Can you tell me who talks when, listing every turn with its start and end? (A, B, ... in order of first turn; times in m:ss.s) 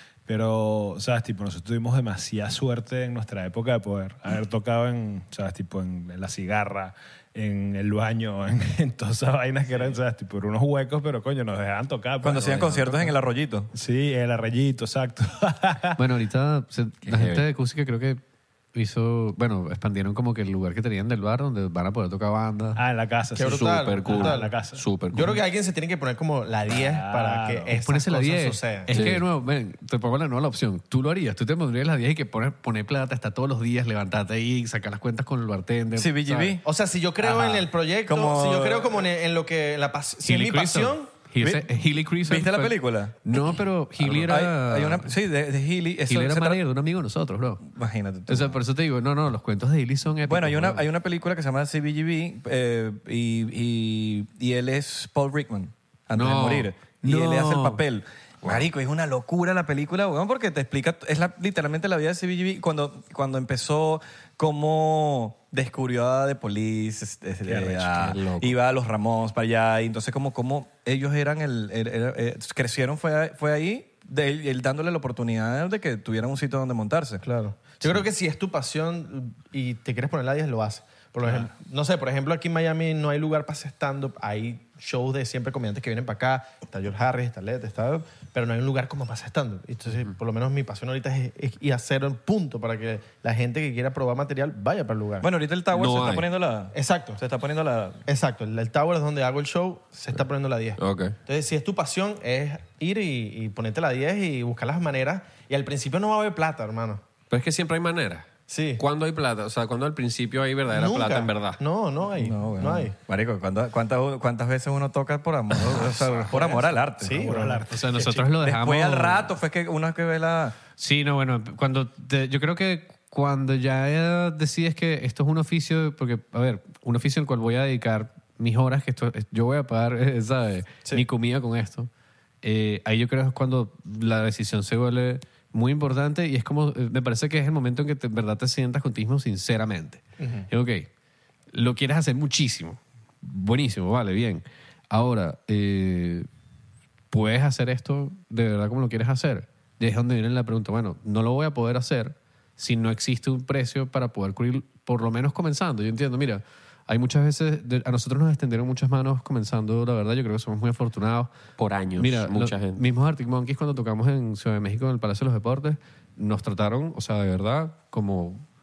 0:00.2-0:13.1 A
0:12.2-0:13.7 B
0:13.7-0:16.0 A
0:16.0-0:18.2 C
0:17.0-0:17.4 D
0:18.7-0:22.8 C
0:22.8-0:24.8 A
0:23.4-0:24.5 E
0:23.4-0:25.4 D
0:25.1-0:29.0 E
0:26.7-0:27.8 A
0:27.7-0:36.6 C
0:28.9-0:29.2 D
0:36.0-0:36.6 B
0:36.6-0:41.1 E
0:37.2-0:39.0 B
0:40.2-0:45.1 C
0:41.4-0:43.3 B
0:44.0-0:46.6 B
0:46.1-0:47.6 C
0:47.6-0:48.6 B
0:48.3-0:50.8 C
0:50.2-1:17.2 B
0:56.1-0:57.8 C
1:07.5-1:08.0 A
1:17.2-1:35.3 E
1:35.2-1:38.0 B
1:35.7-1:36.2 D
1:36.7-1:37.2 E
1:38.1-1:47.0 E
1:40.8-1:41.2 D
1:47.3-1:51.6 D
1:48.5-1:48.8 E
1:50.7-1:52.9 E
1:52.2-1:57.4 B
1:56.3-1:57.6 E
1:57.1-1:58.3 A
1:57.7-1:59.3 C
1:58.4-2:00.6 B
2:00.8-2:11.9 C
2:12.4-2:20.9 C
2:20.2-2:20.5 E
2:21.5-2:26.3 C
2:27.1-2:41.3 C
2:41.6-2:42.8 D
2:42.0-2:48.4 C